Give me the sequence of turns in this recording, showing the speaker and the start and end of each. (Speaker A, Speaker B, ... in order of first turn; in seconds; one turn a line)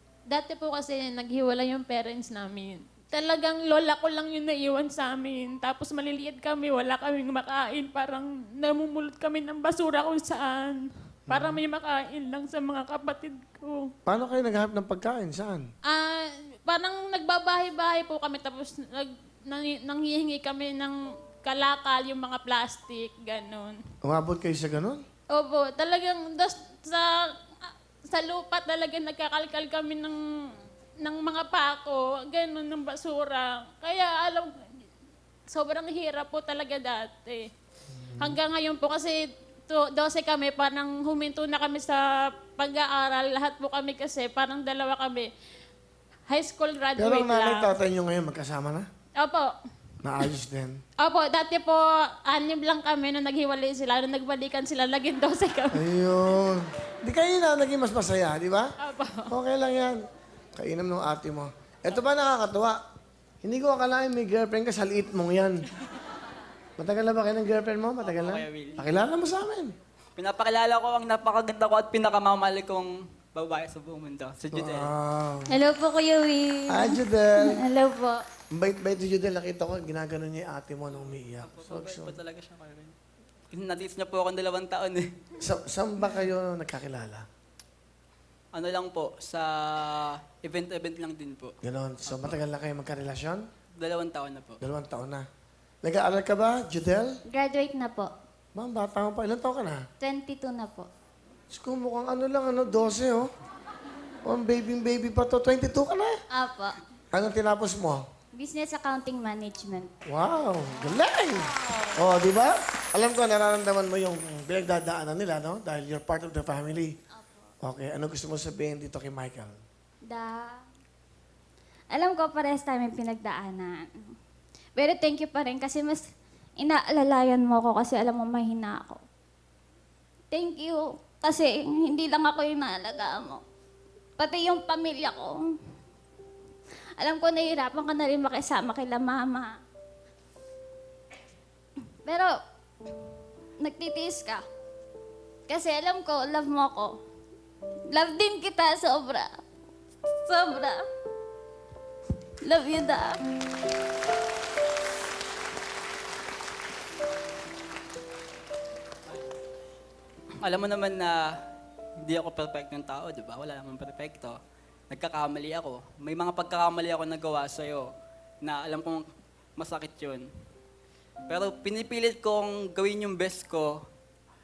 Speaker A: 0.3-13.9
Speaker B: 11.3-11.6
Speaker B: 14.1-15.7
Speaker A: 15.9-23.8
Speaker B: 24.1-25.0
Speaker A: 25.3-34.8
Speaker A: 35.5-37.5
Speaker B: 38.0-38.4
Speaker A: 38.2-45.3
Speaker A: 46.3-47.7
Speaker B: 47.0-48.8
Speaker A: 49.2-49.5
Speaker B: 50.0-50.8
Speaker A: 51.0-55.8
Speaker B: 55.7-58.7
Speaker A: 58.8-59.3
Speaker B: 59.3-60.0
Speaker B: 60.5-62.8
Speaker B: 63.4-65.7
Speaker B: 66.8-69.7
Speaker C: 68.0-68.8
Speaker C: 70.2-74.9
Speaker B: 74.5-75.6
Speaker D: 75.5-78.2
Speaker B: 76.7-77.6
Speaker B: 78.5-82.2
Speaker C: 80.9-82.9
Speaker C: 83.5-85.1
Speaker B: 85.4-87.2
Speaker C: 88.5-91.5
Speaker B: 91.6-93.4
Speaker C: 92.1-92.4
Speaker C: 93.8-94.6
Speaker B: 94.6-95.2
Speaker B: 95.8-97.2
Speaker D: 97.3-98.1
Speaker B: 98.5-99.8
Speaker D: 100.0-100.9
Speaker B: 101.5-103.3
Speaker B: 104.2-106.2
Speaker D: 106.3-106.8
Speaker B: 107.1-108.0
Speaker D: 108.3-109.9
Speaker B: 110.1-117.0
Speaker D: 117.1-117.5
Speaker B: 117.6-119.6
Speaker D: 120.1-120.6
Speaker D: 121.9-124.1
Speaker D: 124.8-126.0
Speaker D: 126.6-129.0
Speaker D: 130.3-133.4
Speaker D: 134.2-135.4
Speaker D: 137.0-139.5
Speaker D: 142.1-142.3
Speaker D: 143.6-144.4
Speaker D: 145.5-147.0
Speaker D: 147.9-149.3
Speaker D: 150.2-150.8
Speaker D: 152.4-153.2
Speaker C: 160.4-161.2
Speaker C: 162.0-164.4
Speaker C: 164.9-167.9
Speaker C: 168.4-169.1
Speaker C: 169.6-170.3
Speaker C: 171.3-173.8